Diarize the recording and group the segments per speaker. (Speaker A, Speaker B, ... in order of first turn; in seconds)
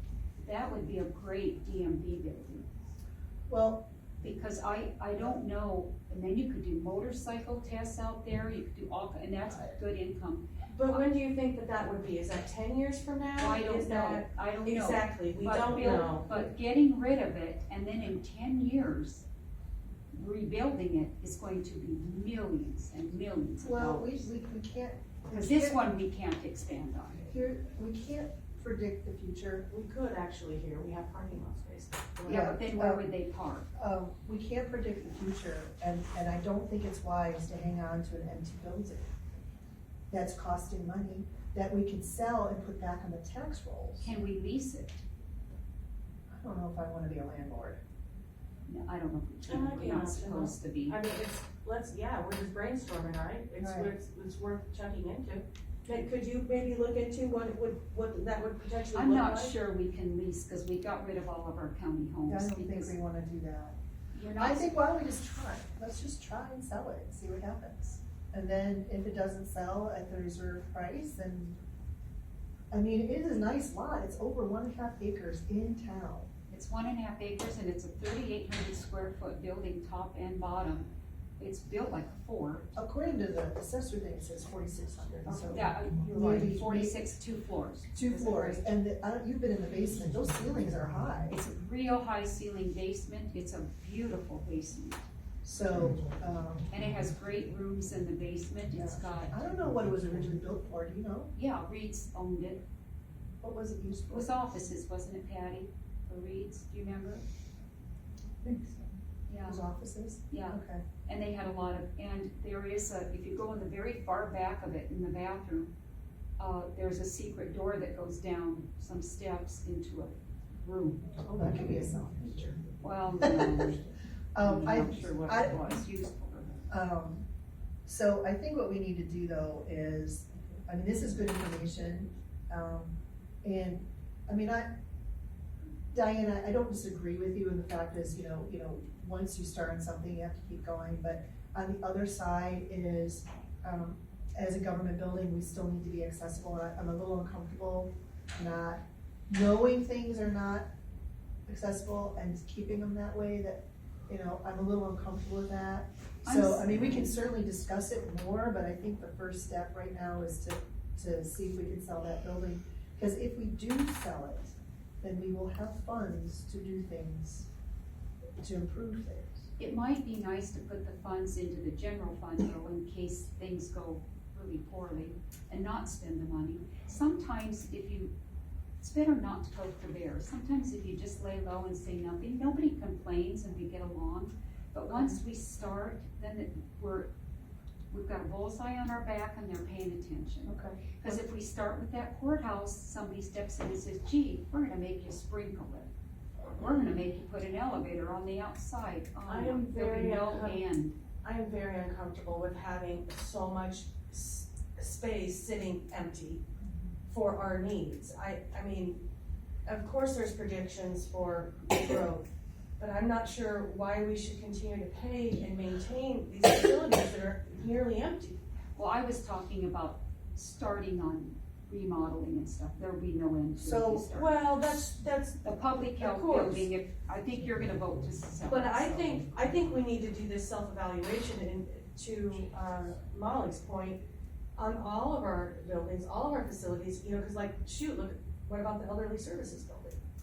Speaker A: 0.4-2.7, 4.2-11.0, 13.4-19.2, 20.1-24.3, 25.3-27.3, 32.2-33.7, 44.0-45.0, 48.7-51.0, 58.9-63.0, 64.1-64.8, 76.5-80.9, 81.4-82.8, 85.3-88.7, 91.3-95.0, 96.7-99.4, 101.3-102.6, 104.1-107.2, 109.3-109.7, 110.3-115.7, 116.4-121.1, 122.8-123.8, 124.4-126.7, 156.2-157.1, 169.6-178.1, 178.8-187.1, 187.9-195.9, 196.4-201.0, 218.8-224.5, 225.4-229.2
Speaker B: 3.5-3.9, 23.6-25.9, 27.3-29.7, 32.3-33.0, 33.8-39.1, 40.1-44.1, 46.3-47.8, 53.6-53.9, 62.3-63.8, 64.4-71.6, 72.7-76.3, 82.8-87.1, 87.9-91.4, 95.4-96.7, 98.8-101.3, 103.4-104.3, 108.4-108.9, 109.5-110.8, 121.2-123.8, 124.3-125.9, 126.7-127.3, 127.9-134.7, 135.9-150.7, 151.5-167.5, 168.4-169.5, 184.9-185.2, 190.5-191.2, 223.6-224.1
Speaker C: 10.7-16.3, 29.7-32.5, 49.5-59.5, 199.3-200.6, 201.2-206.4, 207.1-209.0, 209.7-212.3, 212.8-218.4, 224.1-226.7, 228.5-234.0, 234.6-240.0